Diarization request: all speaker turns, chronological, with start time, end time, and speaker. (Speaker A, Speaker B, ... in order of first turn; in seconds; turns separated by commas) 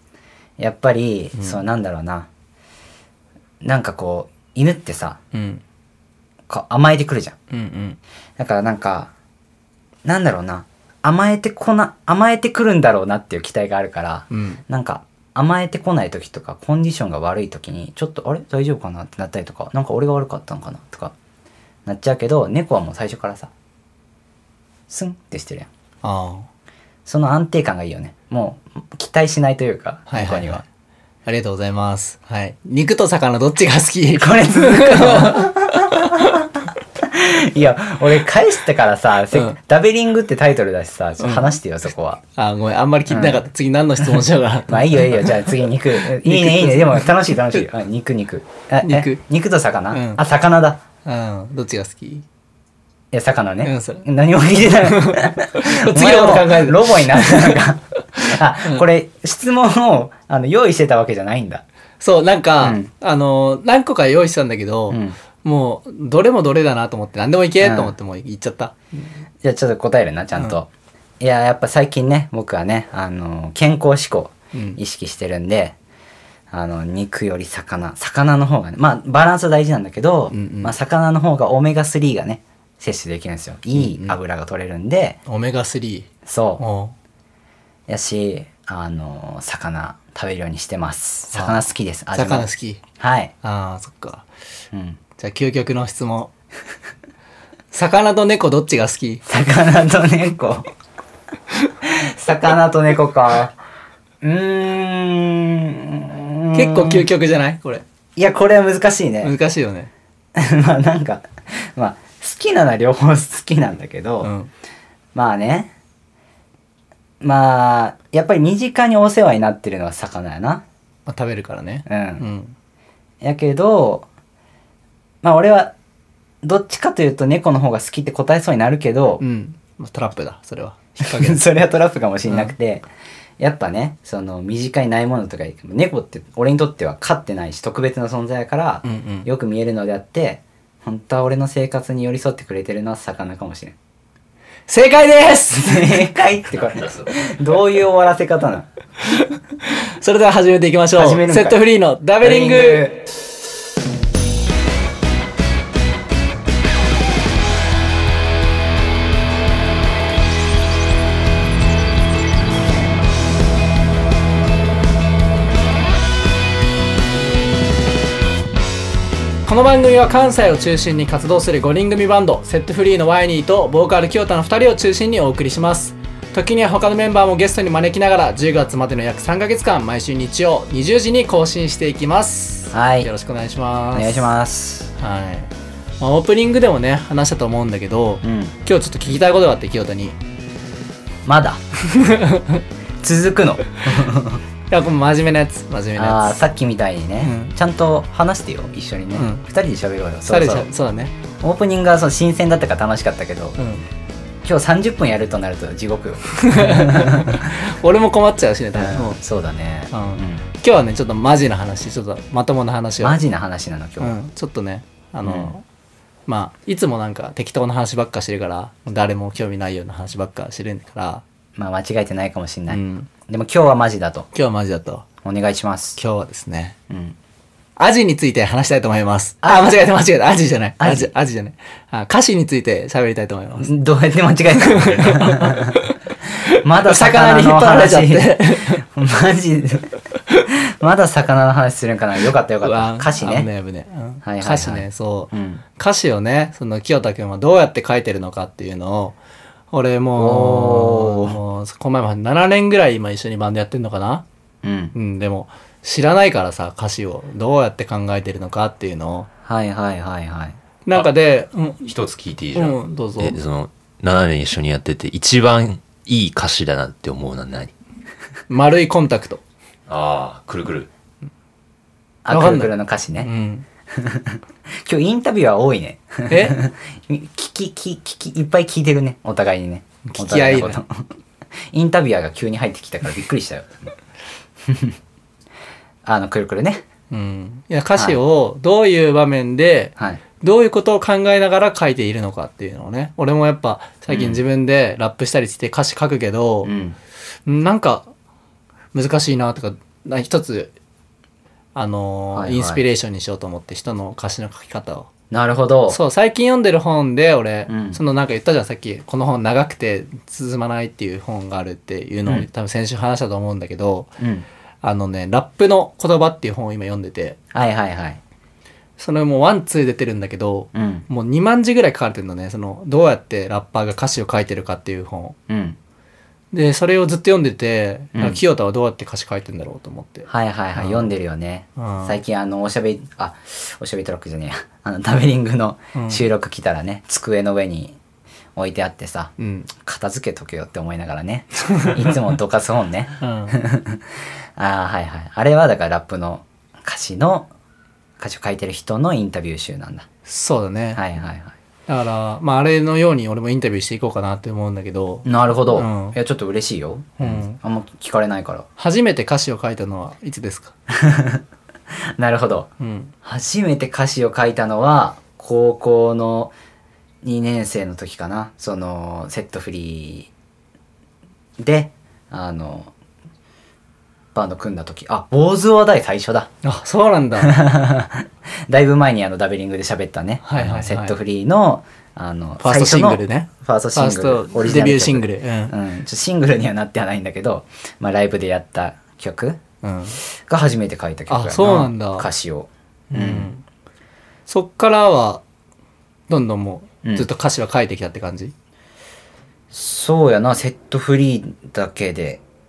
Speaker A: 0.6-2.3, Speaker A: 3.6-5.2, Speaker B: 5.3-5.6, Speaker A: 6.5-7.4, Speaker B: 7.5-8.0, Speaker A: 8.4-9.1, Speaker A: 10.0-21.1, Speaker B: 14.3-14.6, Speaker A: 21.9-23.5, Speaker A: 24.9-25.7, Speaker B: 26.0-26.5, Speaker A: 27.1-30.6, Speaker B: 30.1-30.6, Speaker B: 31.2-36.3, Speaker A: 34.2-36.4, Speaker A: 37.0-42.2, Speaker B: 41.2-41.6, Speaker B: 42.3-47.6, Speaker A: 43.1-43.4, Speaker A: 44.0-50.8, Speaker B: 48.8-49.2, Speaker B: 49.9-50.2, Speaker B: 51.0-52.2, Speaker A: 53.1-61.6, Speaker B: 53.6-54.1, Speaker B: 54.8-57.6, Speaker B: 62.0-68.8, Speaker A: 62.6-62.9, Speaker A: 64.9-65.2, Speaker A: 67.6-68.0, Speaker A: 69.4-75.8, Speaker B: 74.5-74.8, Speaker A: 76.5-85.2, Speaker B: 80.3-80.7, Speaker B: 83.7-84.2, Speaker B: 85.3-86.9, Speaker A: 86.2-86.6, Speaker A: 87.9-92.5, Speaker B: 91.3-91.6, Speaker B: 92.1-92.8, Speaker A: 93.0-93.3, Speaker B: 93.4-94.3, Speaker A: 94.7-95.0, Speaker B: 95.2-96.3, Speaker B: 97.7-99.2, Speaker A: 99.2-100.7, Speaker A: 101.8-103.5, Speaker A: 104.2-107.1, Speaker B: 106.5-107.8, Speaker A: 108.2-109.3, Speaker B: 109.2-109.9, Speaker A: 110.3-114.3, Speaker B: 114.2-114.5, Speaker A: 115.1-115.7, Speaker A: 117.2-120.6, Speaker B: 121.0-122.5, Speaker A: 121.9-122.2, Speaker A: 123.2-124.1, Speaker A: 125.2-125.7, Speaker A: 126.4-129.2, Speaker B: 129.2-131.4, Speaker A: 131.0-132.8, Speaker B: 132.3-132.5, Speaker A: 133.4-143.8, Speaker B: 138.8-139.3, Speaker B: 144.7-146.1, Speaker A: 145.5-148.7, Speaker B: 149.2-152.9, Speaker A: 151.0-151.6, Speaker A: 152.2-153.0, Speaker B: 169.4-184.3, Speaker A: 182.7-183.1, Speaker A: 183.9-184.9, Speaker B: 185.0-190.2, Speaker A: 188.2-188.5, Speaker A: 191.2-191.6, Speaker B: 191.9-192.6, Speaker A: 193.0-194.4, Speaker B: 194.7-196.4, Speaker A: 195.9-200.7, Speaker B: 197.2-197.5, Speaker B: 199.2-199.4, Speaker B: 200.3-201.1, Speaker A: 201.4-203.6, Speaker B: 203.6-203.8, Speaker A: 204.4-207.5, Speaker B: 206.4-209.2, Speaker A: 208.7-210.4, Speaker B: 209.9-213.2, Speaker A: 213.0-214.2, Speaker B: 214.0-215.6, Speaker A: 215.2-215.5, Speaker B: 216.3-221.2, Speaker A: 221.6-224.3, Speaker B: 222.7-223.1, Speaker B: 224.3-225.1, Speaker A: 225.2-226.0, Speaker B: 225.9-226.8, Speaker A: 226.9-227.2, Speaker B: 227.8-233.7, Speaker A: 230.8-231.1, Speaker A: 233.6-235.8, Speaker B: 234.6-236.0, Speaker A: 236.6-239.9, Speaker B: 236.8-238.8, Speaker A: 240.5-243.5, Speaker B: 242.6-249.2, Speaker A: 244.2-245.6, Speaker B: 249.7-254.2, Speaker A: 250.2-251.4, Speaker A: 254.6-254.9, Speaker B: 254.9-259.3, Speaker A: 259.4-260.6, Speaker B: 260.9-261.9, Speaker C: 261.8-267.7, Speaker B: 262.5-263.4, Speaker B: 268.5-269.4, Speaker C: 269.9-270.9, Speaker A: 272.2-273.3, Speaker B: 272.3-273.6, Speaker A: 273.9-281.1, Speaker B: 276.3-276.6, Speaker B: 280.1-280.8, Speaker A: 281.7-283.9, Speaker A: 284.7-284.9, Speaker A: 286.0-286.8, Speaker B: 287.1-296.7, Speaker A: 294.1-294.4, Speaker A: 296.6-297.0, Speaker B: 297.4-298.1, Speaker B: 298.9-300.7, Speaker B: 301.7-305.1, Speaker A: 302.3-302.8, Speaker A: 305.3-306.0, Speaker B: 305.9-314.1, Speaker A: 307.7-308.0, Speaker A: 314.2-314.4, Speaker B: 314.8-317.4, Speaker A: 317.5-318.2, Speaker B: 319.0-325.4, Speaker A: 320.7-321.1, Speaker A: 325.5-325.8, Speaker B: 326.5-331.1, Speaker A: 328.1-328.4, Speaker A: 330.3-338.0, Speaker B: 331.8-332.2, Speaker B: 335.9-336.2, Speaker A: 338.6-347.5, Speaker B: 339.4-339.7, Speaker B: 341.7-342.0, Speaker B: 343.2-343.6, Speaker A: 348.2-350.1, Speaker B: 350.2-351.0, Speaker A: 350.9-351.5, Speaker B: 351.9-356.2, Speaker A: 355.2-358.6, Speaker B: 357.2-357.6, Speaker B: 358.8-360.7, Speaker A: 361.0-361.4, Speaker A: 362.1-362.7, Speaker B: 362.8-363.1, Speaker A: 363.2-366.5, Speaker A: 367.2-370.3, Speaker A: 371.6-372.9, Speaker A: 374.3-376.5, Speaker B: 376.6-377.6, Speaker A: 377.4-389.6, Speaker B: 380.4-381.2, Speaker B: 382.6-385.8, Speaker B: 389.8-390.2, Speaker A: 390.4-393.5, Speaker B: 391.3-392.3, Speaker B: 393.1-393.6, Speaker B: 394.5-395.4, Speaker B: 396.3-398.5, Speaker A: 399.7-402.4